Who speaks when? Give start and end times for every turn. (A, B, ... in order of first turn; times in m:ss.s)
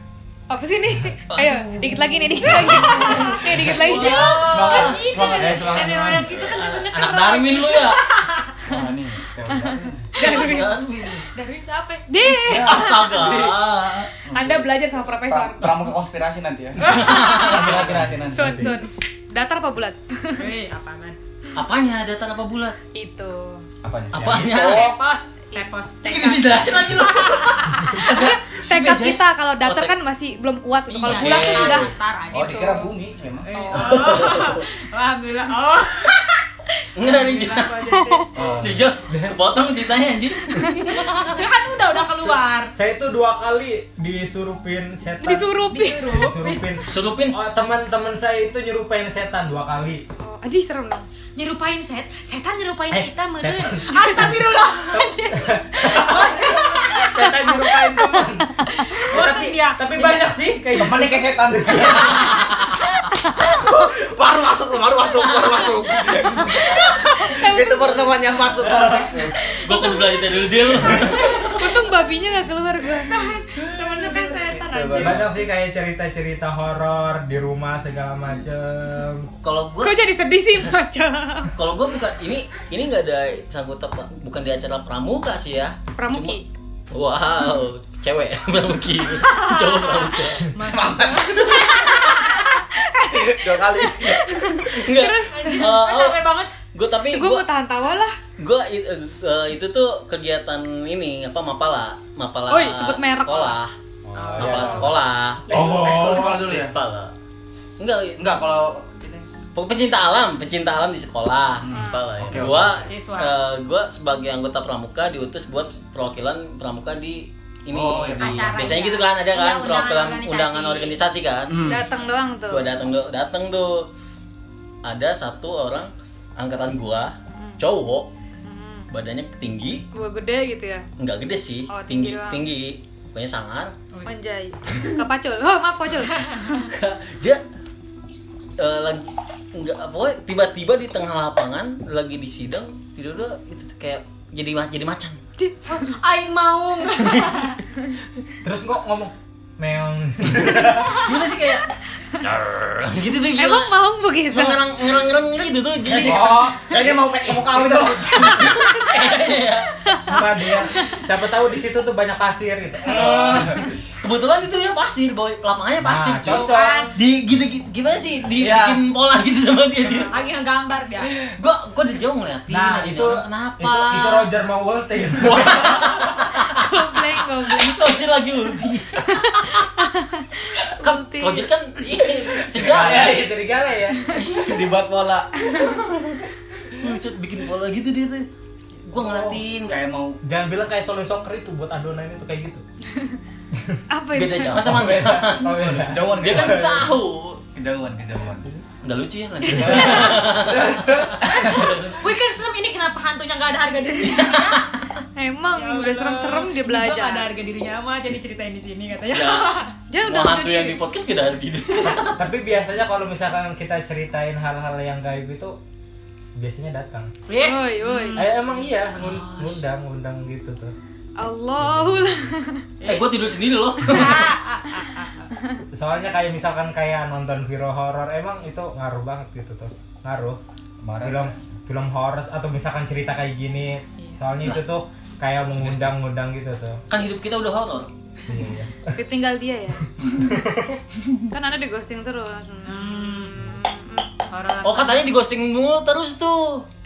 0:00.5-0:04.4 A
0:01.3-0:05.0 B
0:02.7-0:03.2 C
0:03.8-0:08.7 D
0:04.3-0:06.4 C
0:05.5-0:06.0 E
0:06.1-0:08.0 B
0:08.6-0:10.1 C
0:10.2-0:10.8 A
0:10.2-0:11.3 B
0:11.4-0:12.0 D
0:12.1-0:13.2 A
0:12.4-0:14.7 C
0:12.5-0:14.1 B
0:14.3-0:15.8 A
0:15.3-0:18.7 C
0:16.8-0:17.5 D
0:16.8-0:17.9 B
0:17.5-0:18.8 E
0:18.3-0:20.5 A
0:20.4-0:21.2 D
0:21.6-0:22.8 B
0:22.9-0:23.6 A
0:23.8-0:24.4 C
0:24.1-0:24.9 B
0:24.1-0:25.0 E
0:24.6-0:28.0 D
0:26.0-0:29.9 B
0:27.9-0:32.9 A
0:30.9-0:32.9 D
0:31.0-0:31.9 B
0:32.3-0:33.7 C
0:33.5-0:36.4 D
0:33.5-0:34.1 A
0:33.7-0:34.6 B
0:37.0-0:37.9 B
0:37.0-0:38.5 D
0:38.4-0:38.8 C
0:38.6-0:41.4 B
0:40.9-0:42.7 D
0:42.8-0:45.5 E
0:45.2-0:46.2 A
0:45.7-0:46.6 D
0:46.1-0:50.0 E
0:46.9-0:47.4 B
0:50.2-0:51.1 A
0:51.4-0:57.4 D
0:52.9-0:54.4 E
0:54.9-0:58.5 E
0:56.8-0:57.5 A
0:58.6-0:59.0 A
0:58.9-1:00.3 D
0:59.1-1:02.2 E
1:00.8-1:02.4 C
1:01.9-1:02.7 B
1:03.1-1:03.5 A
1:03.4-1:09.4 C
1:05.2-1:06.6 B
1:06.5-1:08.4 A
1:08.7-1:09.1 E
1:09.4-1:10.0 A
1:09.6-1:11.7 B
1:10.8-1:11.3 C
1:11.4-1:14.3 A
1:13.0-1:15.3 D
1:13.8-1:15.4 C
1:15.0-1:19.3 E
1:19.4-1:20.2 B
1:19.8-1:21.5 A
1:21.6-1:26.4 B
1:26.0-1:26.5 A
1:26.9-1:30.5 B
1:29.2-1:32.8 D
1:30.6-1:32.2 C
1:33.0-1:34.2 C
1:34.0-1:35.7 A
1:34.6-1:37.5 B
1:35.3-1:36.5 D
1:37.1-1:38.2 A
1:38.4-1:43.7 B
1:42.5-1:43.6 A
1:44.1-1:46.7 C
1:44.2-1:44.9 D
1:44.4-1:45.5 B
1:45.5-1:47.1 F
1:45.6-1:46.4 E
1:47.8-1:48.2 B
1:48.2-1:49.3 C
1:49.6-1:51.7 B
1:51.6-1:52.9 C
1:51.7-1:52.0 A
1:51.7-1:52.7 F
1:52.3-2:01.8 B
1:52.8-1:53.4 D
1:57.7-1:58.8 C
1:58.2-2:01.0 D
2:01.5-2:01.8 C
2:01.7-2:02.7 A
2:02.5-2:03.9 B
2:04.8-2:08.1 B
2:07.3-2:07.6 A
2:08.4-2:08.9 A
2:08.9-2:09.8 B
2:09.9-2:10.9 A
2:11.0-2:13.7 B
2:11.7-2:12.4 A
2:14.0-2:16.6 A
2:16.0-2:16.7 D
2:16.7-2:17.4 B
2:18.6-2:25.2 B
2:25.4-2:26.0 A
2:25.7-2:27.6 D
2:28.4-2:30.9 E
2:31.0-2:31.7 B
2:32.2-2:33.7 B
2:33.4-2:34.6 A
2:34.3-2:36.4 B
2:35.8-2:38.8 C
2:36.0-2:38.0 E
2:38.3-2:38.9 A
2:38.4-2:39.7 B
2:39.9-2:40.2 A
2:40.1-2:43.6 E
2:42.9-2:43.8 C
2:43.1-2:43.5 B
2:44.0-2:50.1 B
2:45.8-2:46.9 E
2:46.3-2:47.0 D
2:48.4-2:48.8 C
2:49.9-2:50.3 A
2:50.1-2:51.1 D
2:51.1-2:54.3 B
2:52.5-2:56.1 E
2:55.2-2:56.7 B
2:56.4-2:57.9 A
2:57.4-2:59.6 B
2:59.0-3:01.5 A
3:00.8-3:03.2 B
3:02.6-3:04.1 E
3:02.6-3:03.3 C
3:04.2-3:05.4 C
3:04.3-3:04.6 B
3:05.4-3:05.8 A
3:05.6-3:06.2 B
3:06.8-3:08.3 B
3:08.8-3:09.8 B
3:09.0-3:09.4 E
3:09.7-3:10.2 C
3:10.2-3:12.6 E
3:13.5-3:13.8 E
3:13.9-3:14.6 A
3:14.2-3:17.4 B
3:14.5-3:16.9 E
3:15.6-3:16.9 C
3:17.6-3:18.5 C
3:18.8-3:22.0 B
3:19.5-3:21.5 E
3:19.5-3:20.4 C
3:21.3-3:21.7 C
3:21.3-3:24.6 D
3:24.0-3:24.8 B
3:25.2-3:27.3 A
3:25.6-3:29.7 D
3:29.1-3:32.2 B
3:29.9-3:30.8 A
3:31.8-3:35.6 E
3:36.4-3:37.1 E
3:37.3-3:38.3 D
3:37.4-3:38.2 A
3:38.2-3:40.8 E
3:38.9-3:39.6 B
3:41.2-3:42.7 A
3:41.6-3:42.3 E
3:42.8-3:45.3 D
3:42.8-3:44.3 B
3:45.7-3:50.4 E
3:50.8-3:51.4 C
3:51.0-3:56.8 E
3:56.9-3:57.9 B
3:58.3-3:59.0 E
3:59.0-3:59.8 A
4:00.0-4:00.8 E
4:01.3-4:04.3 A
4:02.6-4:03.4 D
4:04.3-4:05.1 D
4:04.6-4:06.7 B